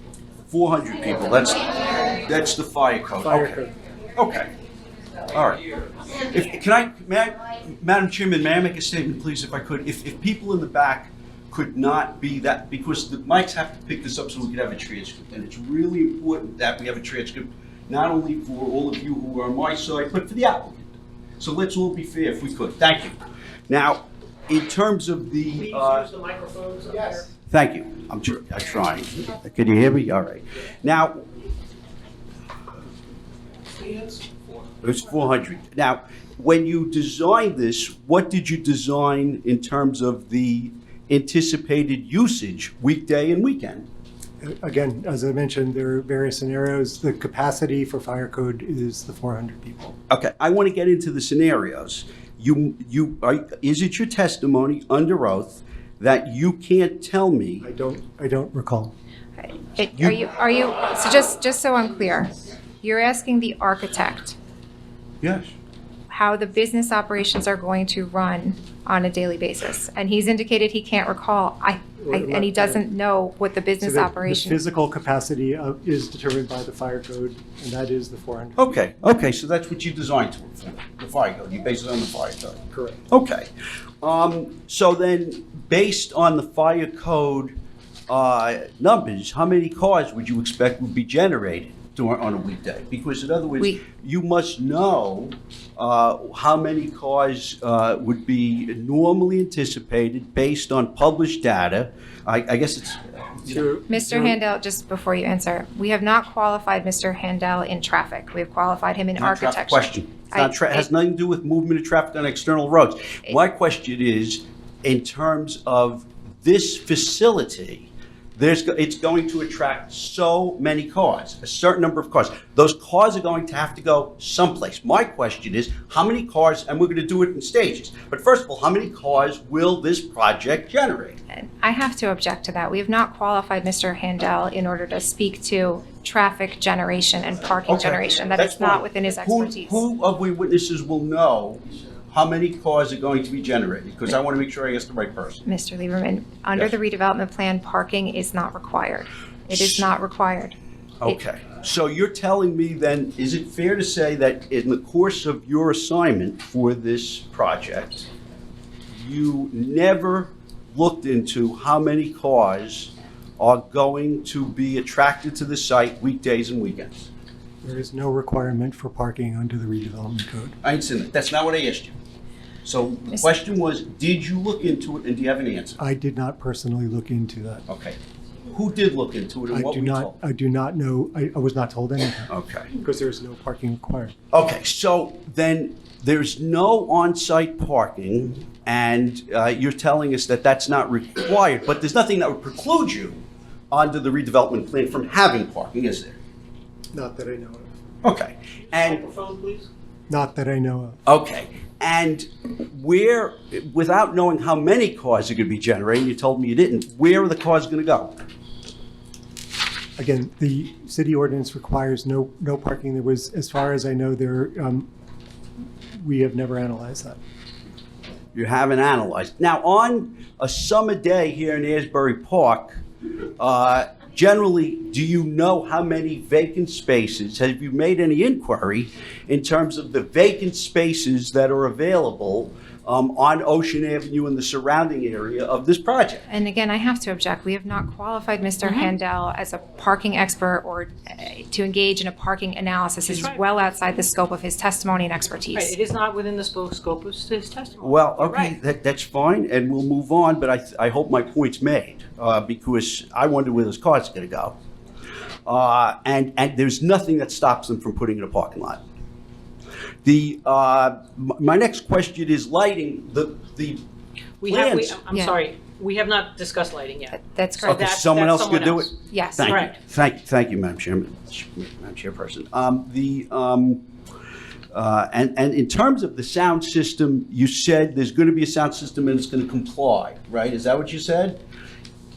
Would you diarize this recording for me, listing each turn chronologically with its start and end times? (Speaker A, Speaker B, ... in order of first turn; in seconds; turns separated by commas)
Speaker A: 0.5-3.6, Speaker B: 3.2-3.7, Speaker A: 4.2-4.5, Speaker A: 5.3-5.7, Speaker A: 6.2-23.2, Speaker A: 23.7-26.1, Speaker C: 25.6-27.3, Speaker A: 27.5-31.2, Speaker A: 34.8-43.9, Speaker B: 44.4-50.0, Speaker A: 50.1-57.6, Speaker B: 57.6-58.9, Speaker D: 59.4-64.4, Speaker A: 65.2-65.5, Speaker D: 66.1-74.6, Speaker B: 72.0-72.8, Speaker B: 73.8-78.6, Speaker A: 78.6-83.5, Speaker B: 82.7-83.0, Speaker A: 84.0-87.5, Speaker A: 88.1-103.7, Speaker B: 103.5-104.4, Speaker D: 103.9-110.9, Speaker A: 109.2-131.2, Speaker D: 131.3-139.8, Speaker A: 137.7-145.4, Speaker D: 145.5-151.2, Speaker A: 151.0-158.1, Speaker A: 158.9-167.1, Speaker B: 167.6-170.6, Speaker A: 170.6-171.9, Speaker A: 172.6-175.8, Speaker B: 175.8-177.6, Speaker A: 177.7-180.1, Speaker B: 179.5-184.2, Speaker A: 182.3-182.7, Speaker A: 184.3-196.2, Speaker B: 196.9-197.7, Speaker A: 198.0-199.1, Speaker C: 198.8-199.7, Speaker B: 200.1-201.0, Speaker A: 201.1-208.2, Speaker B: 210.0-214.9, Speaker B: 215.9-217.2, Speaker A: 218.3-222.8, Speaker A: 223.4-236.2, Speaker D: 236.3-245.8, Speaker C: 238.6-238.9, Speaker C: 243.1-243.4, Speaker C: 245.6-248.6, Speaker A: 247.8-254.6, Speaker A: 255.4-258.8, Speaker A: 260.0-263.8, Speaker C: 264.4-269.8, Speaker A: 264.4-265.0, Speaker D: 267.2-267.8, Speaker A: 267.6-273.8, Speaker D: 269.1-269.6, Speaker A: 274.7-281.4